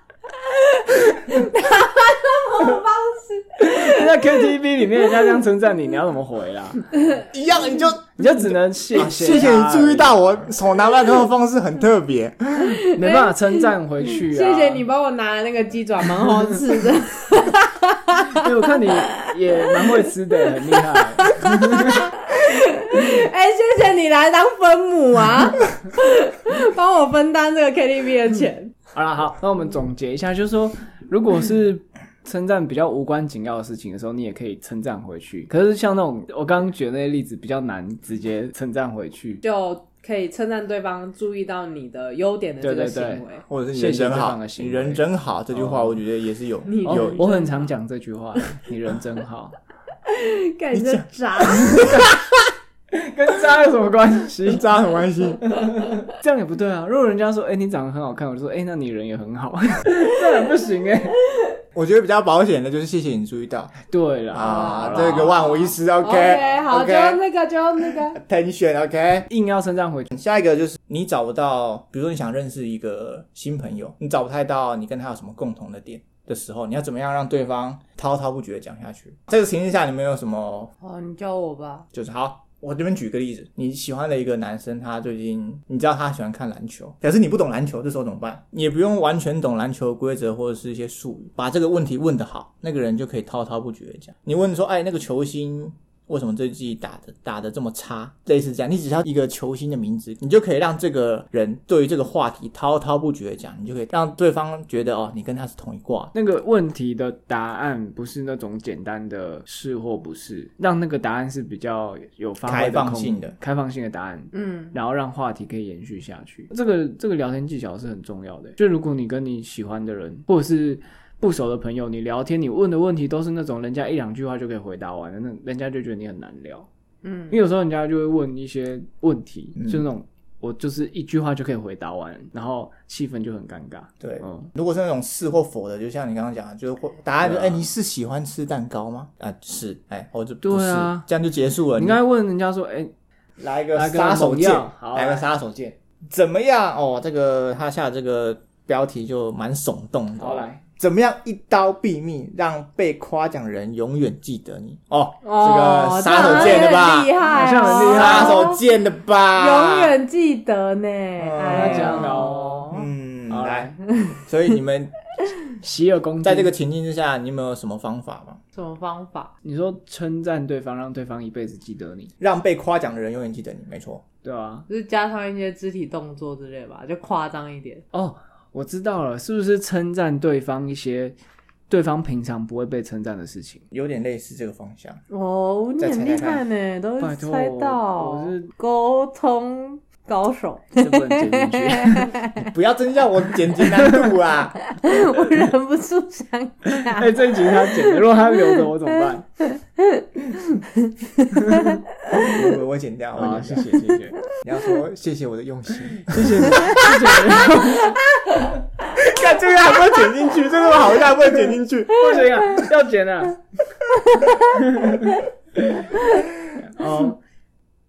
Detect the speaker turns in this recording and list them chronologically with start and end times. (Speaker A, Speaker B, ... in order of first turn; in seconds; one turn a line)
Speaker A: 0.3-4.5
Speaker B: 3.6-6.9
Speaker C: 7.3-8.1
Speaker B: 8.2-10.4
Speaker C: 8.9-12.8
Speaker A: 12.6-28.7
Speaker B: 12.9-14.9
Speaker B: 18.2-22.1
Speaker B: 28.9-39.4
Speaker A: 39.4-43.5
Speaker B: 42.6-46.0
Speaker C: 43.5-47.2
Speaker A: 46.7-47.7
Speaker B: 46.8-49.6
Speaker A: 50.1-52.1
Speaker C: 50.7-52.1
Speaker B: 51.7-52.1
Speaker B: 52.9-54.7
Speaker C: 54.5-55.5
Speaker B: 55.5-61.2
Speaker C: 61.8-63.8
Speaker B: 63.9-65.4
Speaker C: 64.3-67.2
Speaker A: 64.4-68.2
Speaker C: 67.8-69.3
Speaker B: 69.3-70.1
Speaker C: 70.1-80.7
Speaker A: 80.8-81.9
Speaker C: 81.9-106.1
Speaker B: 106.1-126.7
Speaker C: 112.5-113.3
Speaker A: 114.3-114.8
Speaker A: 127.0-127.4
Speaker B: 127.3-134.5
Speaker C: 129.6-129.9
Speaker C: 134.0-142.0
Speaker B: 137.2-137.6
Speaker B: 140.4-141.1
Speaker B: 141.8-142.9
Speaker C: 143.4-157.2
Speaker B: 143.7-145.3
Speaker B: 150.2-150.6
Speaker A: 155.2-158.6
Speaker B: 157.2-158.5
Speaker C: 157.7-160.0
Speaker A: 159.3-162.9
Speaker C: 161.2-164.9
Speaker B: 161.5-162.7
Speaker B: 163.3-163.8
Speaker B: 165.6-166.5
Speaker C: 166.2-168.4
Speaker A: 168.6-169.3
Speaker B: 169.4-172.1
Speaker C: 172.2-174.0
Speaker B: 174.2-174.7
Speaker A: 174.7-177.8
Speaker B: 177.9-181.2
Speaker B: 181.7-183.7
Speaker C: 183.7-185.0
Speaker A: 185.1-192.5
Speaker C: 185.8-186.4
Speaker B: 187.0-188.5
Speaker B: 190.8-192.2
Speaker C: 192.4-194.7
Speaker A: 194.7-198.6
Speaker B: 196.7-199.3
Speaker A: 199.4-202.5
Speaker B: 201.3-201.8
Speaker C: 202.2-207.4
Speaker B: 203.2-204.2
Speaker B: 206.1-208.0
Speaker A: 206.7-208.0
Speaker C: 208.9-212.7
Speaker B: 211.9-213.4
Speaker B: 214.5-215.9
Speaker B: 216.6-217.2